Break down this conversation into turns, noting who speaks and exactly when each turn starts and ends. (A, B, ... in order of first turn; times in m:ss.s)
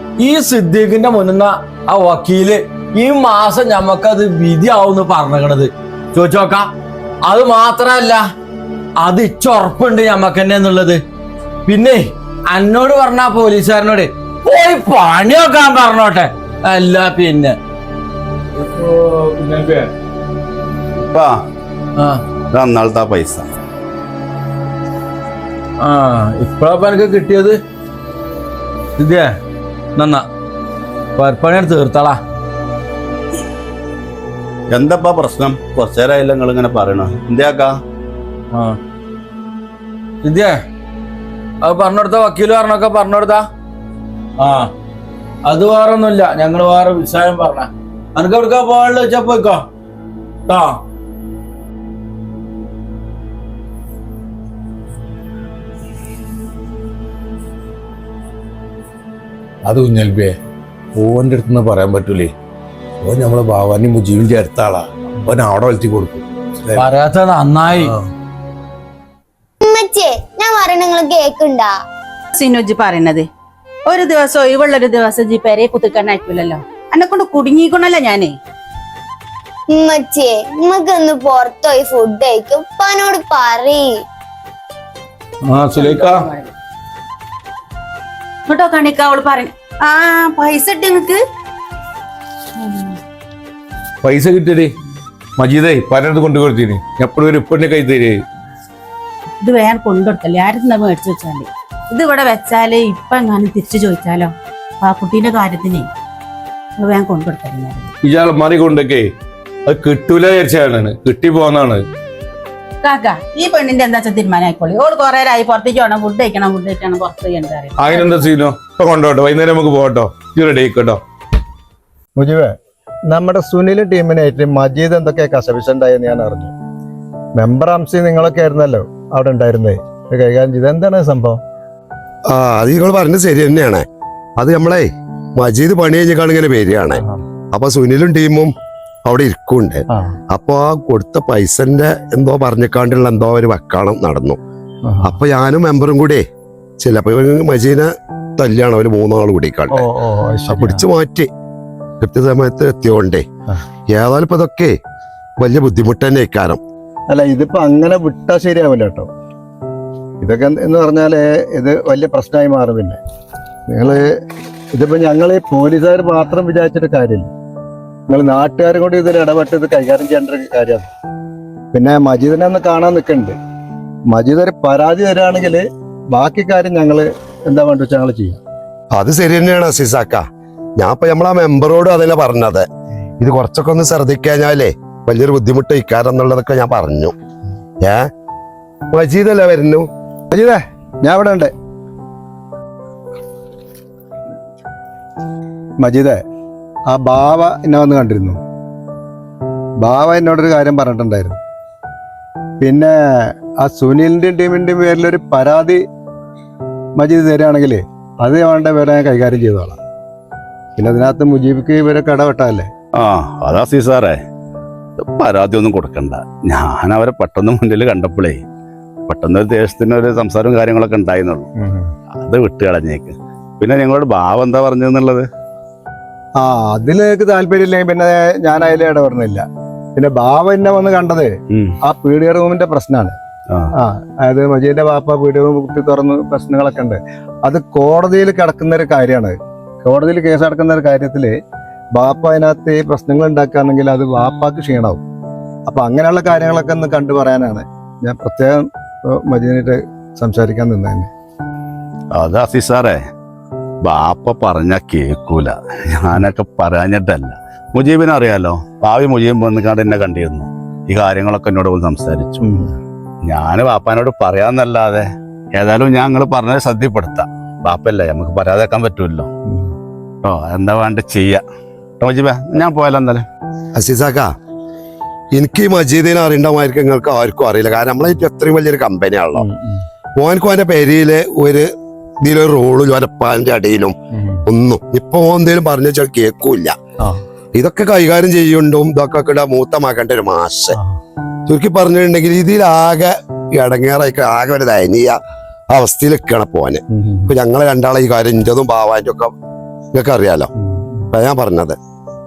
0:00.2-0:06.7 A
0:07.2-0:08.2 A
0:09.0-0:11.0 A
0:11.7-0:17.6 A
0:18.7-0:19.8 B
0:21.0-0:21.3 C
0:22.5-0:23.5 C
0:25.8-0:27.6 A
0:29.0-0:29.3 A
0:30.0-0:30.2 A
0:31.2-0:32.2 A
0:34.7-0:37.7 C
0:38.5-0:38.8 A
0:40.2-0:40.6 A
0:41.6-0:43.4 A
0:44.4-0:44.7 A
0:45.4-0:49.6 A
0:50.5-0:50.8 A
0:59.6-1:00.3 B
1:01.0-1:02.3 B
1:03.0-1:06.8 B
1:06.8-1:07.9 A
1:09.6-1:11.7 D
1:12.3-1:13.3 E
1:13.8-1:18.4 E
1:19.7-1:24.0 D
1:25.4-1:26.3 B
1:25.7-1:26.5 E
1:28.5-1:31.2 E
1:32.6-1:33.0 E
1:34.0-1:34.7 B
1:35.4-1:38.2 B
1:39.4-1:45.9 E
1:46.8-1:47.9 E
1:48.0-1:49.1 B
1:49.6-1:51.8 B
1:52.8-1:58.2 E
1:57.8-2:01.0 B
2:02.2-2:02.5 F
2:03.1-2:06.5 F
2:07.4-2:11.4 F
2:12.3-2:13.8 G
2:14.4-2:17.0 G
2:17.5-2:18.5 G
2:19.0-2:24.4 G
2:24.8-2:25.1 F
2:25.0-2:26.2 G
2:26.8-2:29.9 G
2:29.7-2:30.8 F
2:30.5-2:31.3 G
2:32.0-2:33.2 G
2:33.9-2:34.7 G
2:35.4-2:36.6 G
2:37.1-2:39.1 F
2:40.2-2:43.0 F
2:43.7-2:44.1 F
2:44.7-2:47.3 F
2:48.1-2:50.9 F
2:51.7-2:53.4 F
2:54.1-2:58.4 F
2:58.9-3:00.2 G
3:00.8-3:02.6 G
3:03.2-3:07.1 G
3:08.9-3:09.9 G
3:10.3-3:11.5 F
3:15.8-3:16.2 F
3:16.9-3:18.4 F
3:19.8-3:21.4 F
3:22.6-3:25.8 F
3:27.0-3:29.8 F
3:30.8-3:32.7 F
3:33.0-3:34.2 C
3:35.1-3:38.4 C
3:39.1-3:41.5 C
3:41.6-3:41.8 F
3:42.2-3:45.2 C
3:46.4-3:49.4 F
3:50.0-3:51.3 F
3:51.8-3:53.1 F
3:53.8-4:01.3 F
4:01.9-4:05.0 F
4:05.7-4:11.1 F
4:12.1-4:13.0 C
4:13.8-4:22.5 C
4:22.4-4:22.7 F
4:23.2-4:29.3 C
4:30.2-4:31.4 C
4:32.0-4:33.2 C
4:33.8-4:34.3 G
4:35.3-4:39.5 G
4:39.4-4:39.7 F
4:40.2-4:41.7 G
4:42.2-4:43.9 G
4:44.4-4:46.7 G
4:47.5-4:50.8 G
4:51.5-4:55.2 G
4:55.7-4:59.3 G
4:57.0-4:57.3 F
4:59.9-5:00.5 G
5:01.1-5:01.8 G